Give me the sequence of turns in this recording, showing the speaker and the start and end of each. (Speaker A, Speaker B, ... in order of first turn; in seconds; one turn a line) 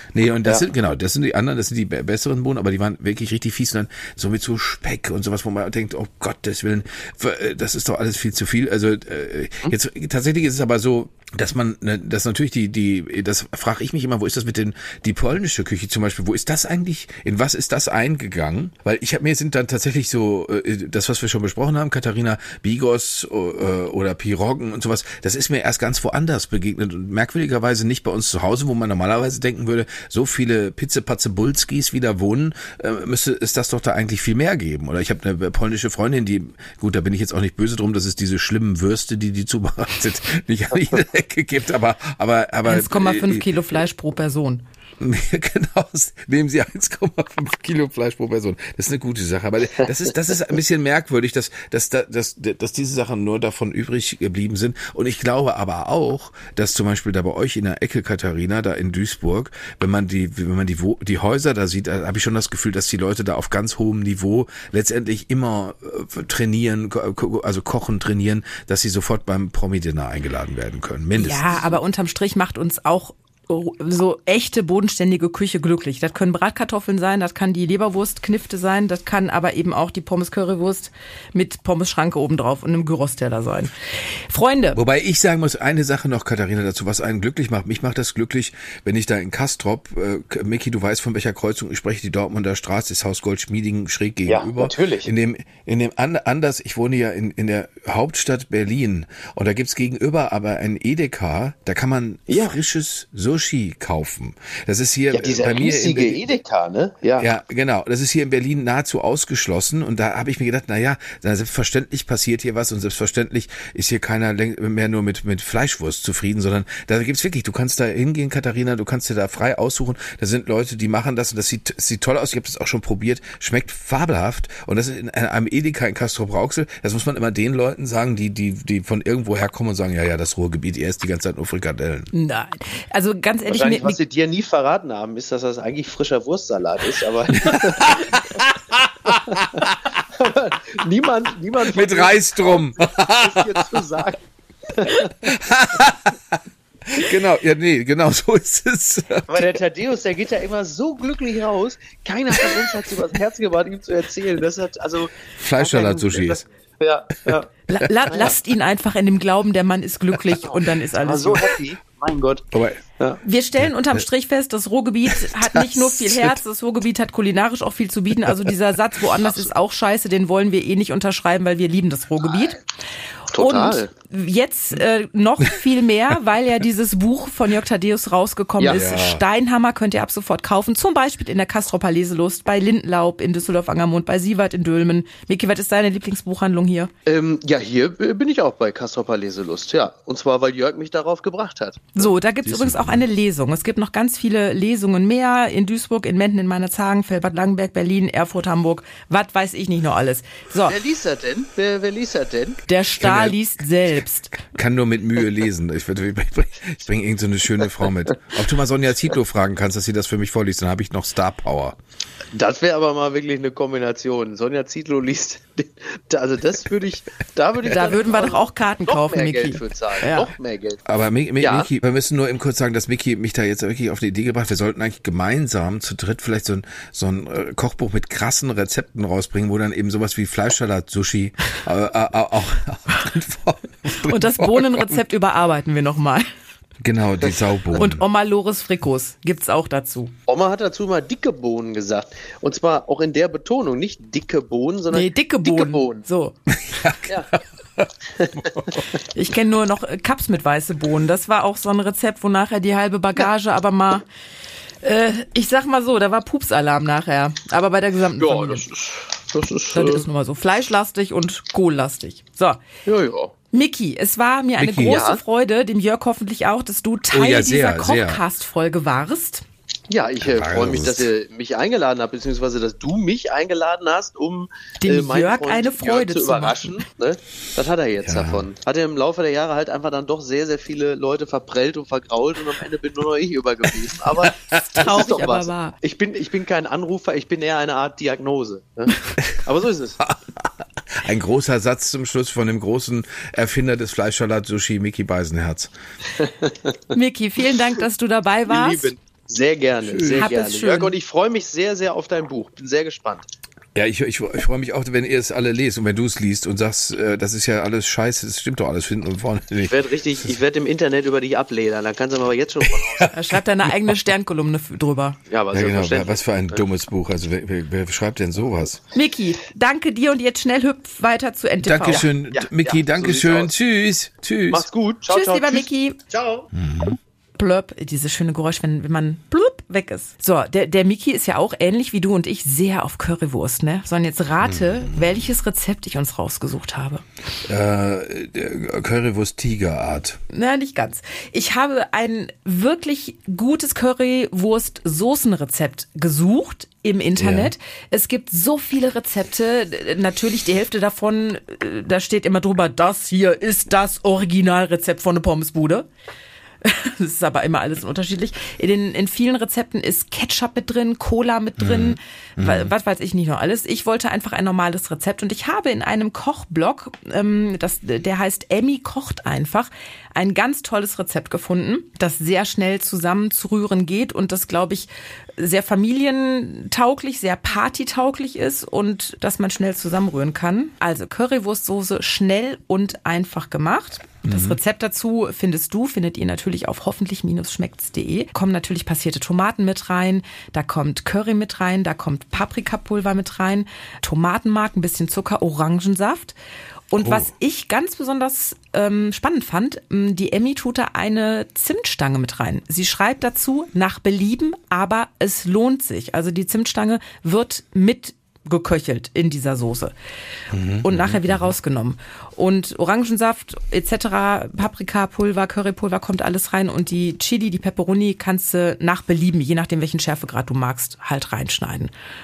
Speaker A: 0.1-43.8
Speaker B: 42.6-44.6
Speaker A: 45.0-71.7
Speaker B: 71.2-84.8
Speaker A: 84.7-106.2
Speaker C: 94.3-95.1
Speaker C: 102.3-102.5
Speaker C: 105.1-107.3
Speaker A: 107.2-132.1
Speaker B: 132.1-134.0
Speaker C: 133.5-138.2
Speaker A: 137.3-140.0
Speaker C: 139.3-145.4
Speaker A: 141.6-143.9
Speaker A: 145.2-149.6
Speaker C: 149.3-157.5
Speaker A: 152.3-152.8
Speaker A: 155.4-156.4
Speaker B: 157.7-161.5
Speaker C: 161.0-163.2
Speaker A: 162.5-162.8
Speaker B: 163.2-172.6
Speaker A: 163.6-164.0
Speaker A: 165.5-166.4
Speaker A: 168.2-168.5
Speaker C: 173.3-173.9
Speaker B: 173.3-186.9
Speaker A: 178.7-179.2
Speaker C: 187.1-192.1
Speaker B: 191.9-200.8
Speaker A: 192.4-193.0
Speaker C: 200.6-202.6
Speaker B: 202.7-204.4
Speaker A: 203.0-203.4
Speaker A: 204.5-211.8
Speaker C: 212.3-220.8
Speaker B: 217.8-220.3
Speaker A: 220.9-235.0
Speaker C: 221.4-221.7
Speaker B: 233.9-236.3
Speaker A: 236.8-238.0
Speaker B: 237.8-240.1
Speaker C: 240.3-246.0
Speaker B: 244.9-246.3
Speaker A: 246.5-248.8
Speaker C: 248.2-248.8
Speaker B: 249.1-254.0
Speaker B: 254.8-258.6
Speaker C: 258.2-260.1
Speaker B: 259.7-262.6
Speaker C: 262.9-263.3
Speaker B: 263.5-269.4
Speaker A: 264.6-265.1
Speaker C: 264.8-265.2
Speaker A: 267.1-268.2
Speaker C: 269.9-290.0
Speaker A: 270.2-271.1
Speaker B: 274.8-276.8
Speaker A: 278.0-278.5
Speaker A: 284.1-284.6
Speaker B: 284.6-285.7
Speaker A: 290.0-295.7
Speaker C: 296.1-296.8
Speaker B: 296.9-298.9
Speaker C: 298.5-303.3
Speaker A: 299.9-300.3
Speaker B: 300.2-300.9
Speaker A: 303.7-310.3
Speaker C: 309.6-313.1
Speaker A: 312.6-313.9
Speaker B: 313.1-315.2
Speaker C: 315.3-316.6
Speaker A: 315.5-318.8
Speaker B: 318.9-322.0
Speaker A: 321.6-324.7
Speaker C: 321.9-323.5
Speaker C: 324.5-326.5
Speaker B: 325.1-326.0
Speaker A: 326.5-327.0
Speaker B: 327.4-337.0
Speaker A: 334.4-335.0
Speaker A: 337.4-340.2
Speaker B: 340.3-355.9
Speaker A: 347.2-347.5
Speaker B: 356.6-396.3
Speaker A: 361.6-362.7
Speaker A: 384.2-384.6
Speaker B: 396.9-409.9
Speaker A: 397.0-397.3
Speaker A: 410.5-411.5
Speaker B: 410.8-421.9